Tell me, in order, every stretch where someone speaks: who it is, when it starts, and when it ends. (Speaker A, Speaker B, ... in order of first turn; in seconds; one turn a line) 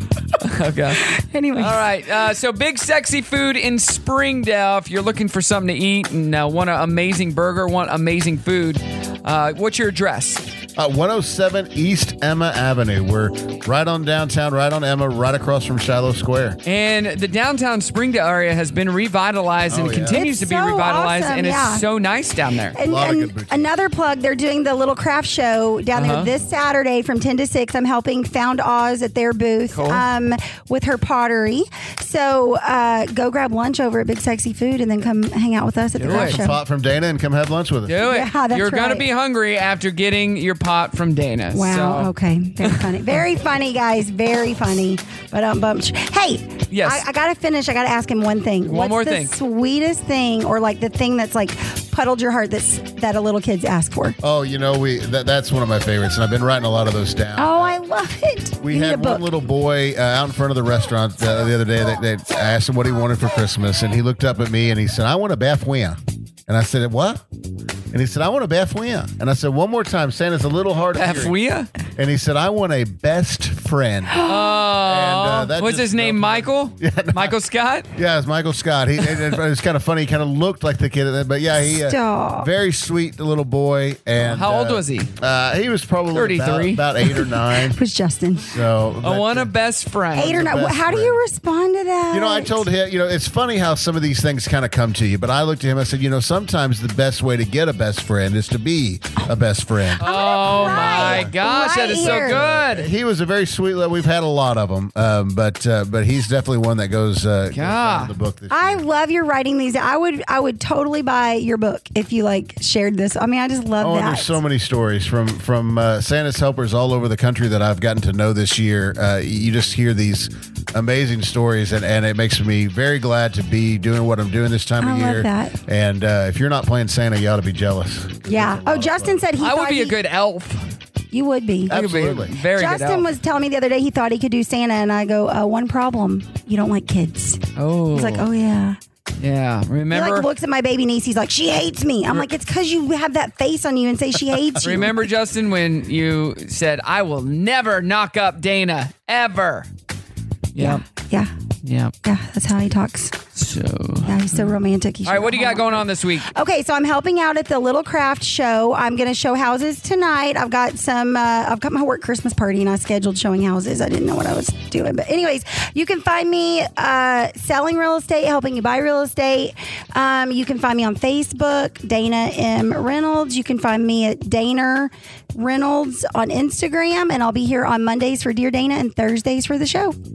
Speaker A: 0.4-1.0
Speaker B: 1.0-1.8
Speaker A: 1.6-10.4
Speaker C: 10.8-16.6
Speaker A: 16.6-22.8
Speaker C: 19.7-20.2
Speaker B: 20.1-21.9
Speaker B: 22.8-36.6
Speaker C: 22.8-23.7
Speaker A: 25.9-26.3
Speaker A: 29.7-30.0
Speaker A: 36.0-36.5
Speaker C: 36.0-38.0
Speaker A: 37.9-42.1
Speaker B: 38.0-39.1
Speaker B: 41.5-54.2
Speaker A: 42.6-42.9
Speaker A: 46.7-47.0
Speaker A: 48.6-49.3
Speaker C: 54.2-57.8
Speaker B: 57.4-59.2
Speaker C: 58.6-67.2
Speaker C: 67.9-71.4
Speaker A: 71.0-71.7
Speaker C: 72.0-74.2
Speaker B: 74.2-74.6
Speaker A: 74.2-77.9
Speaker C: 74.8-77.4
Speaker C: 78.0-87.8
Speaker B: 81.6-82.5
Speaker A: 84.2-85.1
Speaker A: 86.1-87.1
Speaker B: 87.7-88.5
Speaker C: 88.4-89.5
Speaker A: 89.0-90.4
Speaker C: 90.2-91.2
Speaker B: 90.2-92.7
Speaker C: 92.1-101.3
Speaker B: 100.0-102.5
Speaker A: 100.0-102.9
Speaker C: 102.0-108.8
Speaker A: 107.5-108.1
Speaker B: 108.5-114.3
Speaker C: 113.8-129.2
Speaker B: 124.8-125.6
Speaker B: 128.3-130.0
Speaker A: 129.4-130.7
Speaker B: 131.1-131.8
Speaker C: 131.7-132.3
Speaker A: 131.7-133.1
Speaker B: 132.4-138.8
Speaker A: 137.6-138.3
Speaker A: 139.2-140.3
Speaker B: 139.9-145.1
Speaker A: 144.6-149.7
Speaker A: 150.6-150.8
Speaker B: 150.6-151.3
Speaker A: 151.6-151.9
Speaker B: 152.0-153.2
Speaker A: 153.3-154.5
Speaker B: 154.1-179.9
Speaker A: 155.0-156.3